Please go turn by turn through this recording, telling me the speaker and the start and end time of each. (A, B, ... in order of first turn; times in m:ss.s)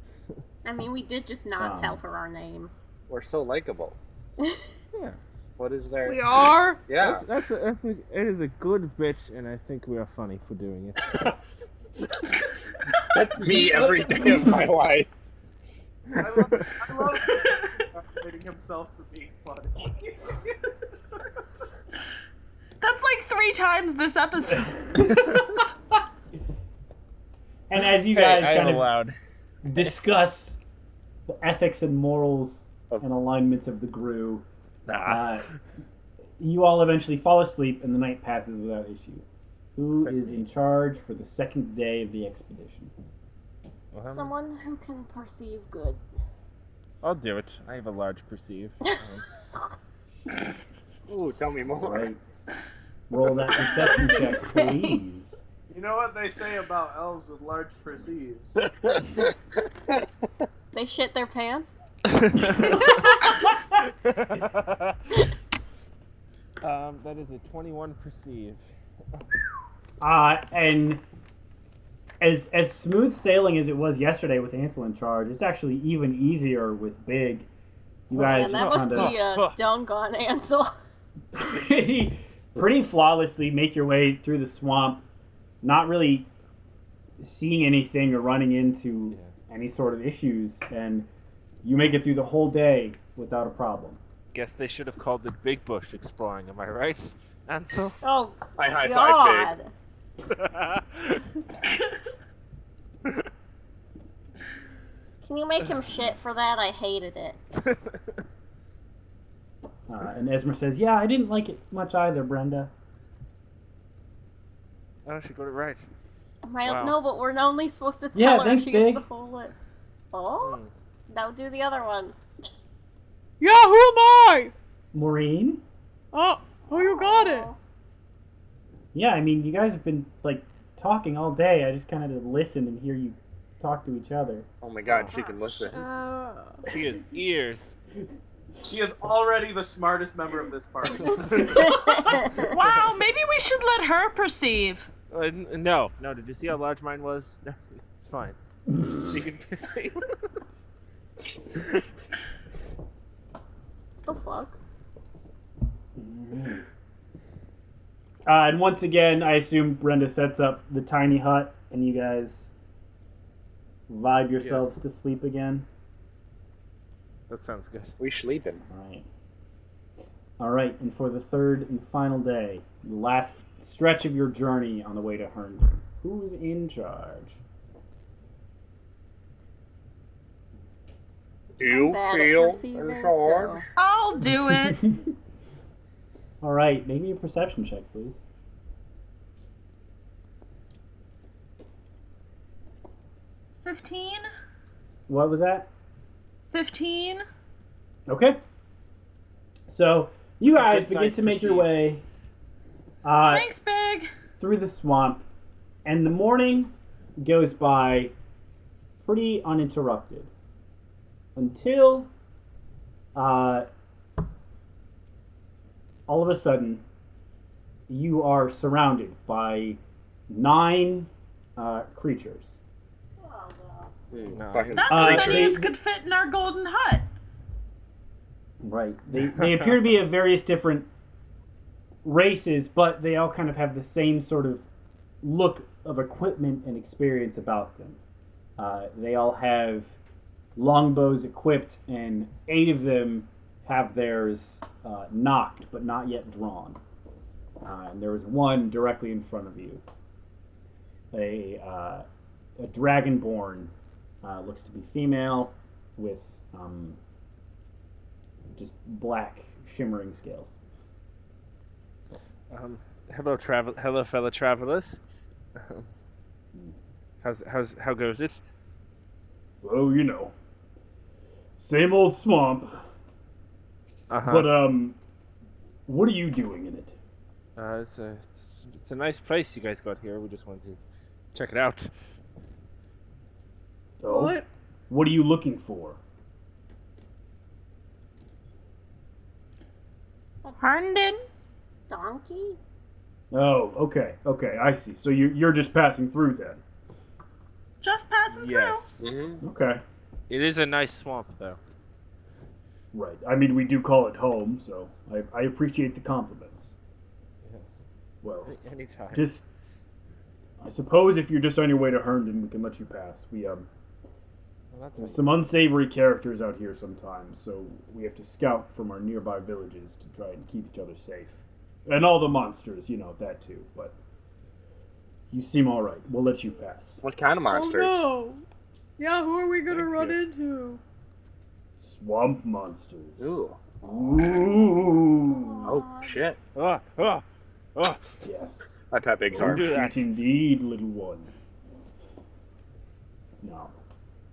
0:00.6-0:02.8 A
0:01.6-0:02.0 B
0:03.1-0:04.0 C
0:05.6-0:06.3 C
0:06.0-0:06.8 D
0:06.9-0:07.2 C
0:07.0-0:11.3 E
0:13.0-0:15.1 C
0:13.5-0:14.5 B
0:16.1-0:16.8 E
0:16.2-0:20.5 F
0:22.8-0:24.9 G
0:24.9-0:25.7 B
0:27.7-0:28.9 B
0:28.1-0:29.2 E
0:29.6-0:30.6 B
0:29.7-0:30.0 E
0:31.3-0:34.4 B
0:34.9-0:35.6 E
0:35.0-0:35.5 B
0:36.4-0:39.2 B
0:39.8-0:42.9 B
0:40.0-0:40.5 E
0:43.9-0:44.3 E
0:44.0-0:46.0 A
0:47.0-0:49.2 E
0:51.1-0:52.1 C
0:51.8-0:52.2 B
0:53.1-0:55.4 B
0:53.6-0:55.0 A
0:55.7-0:58.6 F
0:58.6-0:59.4 C
1:00.7-1:01.8 A
1:02.1-1:03.0 E
1:02.4-1:03.5 A
1:03.9-1:05.0 E
1:06.6-1:08.7 E
1:10.0-1:11.0 B
1:12.2-1:17.5 B
1:18.1-1:19.2 B
1:18.1-1:20.7 A
1:18.2-1:19.6 E
1:21.3-1:25.0 B
1:25.6-1:26.3 B
1:27.2-1:31.1 B
1:31.6-1:34.0 B
1:34.3-1:38.0 E
1:38.0-1:39.7 A
1:38.6-1:39.5 C
1:40.3-1:41.2 E
1:45.2-1:47.4 A
1:47.6-1:48.2 E
1:49.9-1:52.7 B
1:55.1-1:55.9 E
1:56.4-1:59.6 A
1:56.6-1:57.0 E
1:58.1-1:59.0 B
2:00.1-2:02.2 A
2:00.4-2:00.7 E
2:03.4-2:04.5 D
2:04.9-2:05.6 B
2:06.1-2:07.5 D
2:06.6-2:07.6 A
2:08.9-2:14.5 B
2:14.6-2:15.8 C
2:14.9-2:15.2 E
2:15.5-2:16.6 D
2:16.6-2:17.8 E
2:18.6-2:21.5 F
2:21.0-2:21.7 E
2:21.4-2:22.5 A
2:22.2-2:24.9 G
2:22.4-2:22.8 E
2:25.1-2:28.4 E
2:29.0-2:30.2 E
2:34.1-2:34.6 A
2:36.0-2:36.6 B
2:38.3-2:42.5 B
2:43.9-2:45.7 B
2:44.4-2:44.7 E
2:47.3-2:48.0 E
2:48.0-2:48.6 C
2:48.7-2:49.1 B
2:50.4-2:57.4 B
3:01.6-3:03.6 C
3:01.6-3:03.6 A
3:03.8-3:04.8 G
3:04.3-3:05.1 B
3:06.4-3:08.2 B
3:13.6-3:14.3 G
3:15.1-3:15.7 B
3:16.5-3:17.2 G
3:18.1-3:18.4 B
3:19.7-3:22.0 B
3:20.5-3:21.8 E
3:23.0-3:23.5 B
3:23.3-3:24.1 G
3:24.4-3:25.2 B
3:25.8-3:28.1 B
3:29.0-3:30.3 B
3:31.4-3:32.1 B
3:33.2-3:33.7 B
3:36.1-3:36.8 B
3:37.9-3:42.6 B
3:43.2-3:43.9 A
3:44.1-3:45.6 C
3:44.3-3:45.1 E
3:44.8-3:47.1 G
3:44.9-3:45.7 B
3:48.6-3:50.9 B
3:52.0-3:54.6 B
3:55.2-3:58.0 B
3:58.6-3:59.9 B
4:00.6-4:06.8 B
4:07.6-4:09.8 B
4:11.1-4:12.1 B
4:12.6-4:13.7 B
4:14.2-4:17.0 B
4:18.6-4:20.5 B
4:22.5-4:25.0 E
4:25.6-4:25.9 E
4:27.2-4:28.4 E
4:29.6-4:30.3 B
4:31.6-4:32.8 B
4:34.1-4:34.6 E
4:34.2-4:35.0 B
4:35.9-4:37.0 B
4:37.6-4:40.8 E
4:41.3-4:41.9 E
4:44.0-4:46.0 B
4:44.0-4:44.5 D
4:50.6-4:51.2 G
4:51.9-4:52.6 A
4:53.3-4:56.6 B
4:57.8-4:58.8 G
4:58.3-4:59.0 E
4:59.0-4:59.4 C
4:59.4-4:59.8 B
5:00.3-5:01.6 E
5:02.9-5:06.8 B
5:08.2-5:08.5 B
5:08.4-5:09.3 E
5:09.1-5:09.4 B
5:10.6-5:13.7 B
5:14.7-5:15.5 E
5:15.0-5:24.0 B
5:25.3-5:27.0 B
5:27.0-5:28.1 C
5:27.5-5:28.4 D
5:29.0-5:30.8 D
5:29.7-5:30.2 E
5:31.8-5:35.8 B
5:33.2-5:33.6 C
5:35.3-5:36.1 A
5:35.6-5:36.4 C
5:36.6-5:37.2 E
5:37.8-5:38.0 E
5:38.2-5:38.8 B
5:38.9-5:39.7 C
5:39.3-5:41.3 B
5:39.3-5:40.1 E
5:43.4-5:43.7 B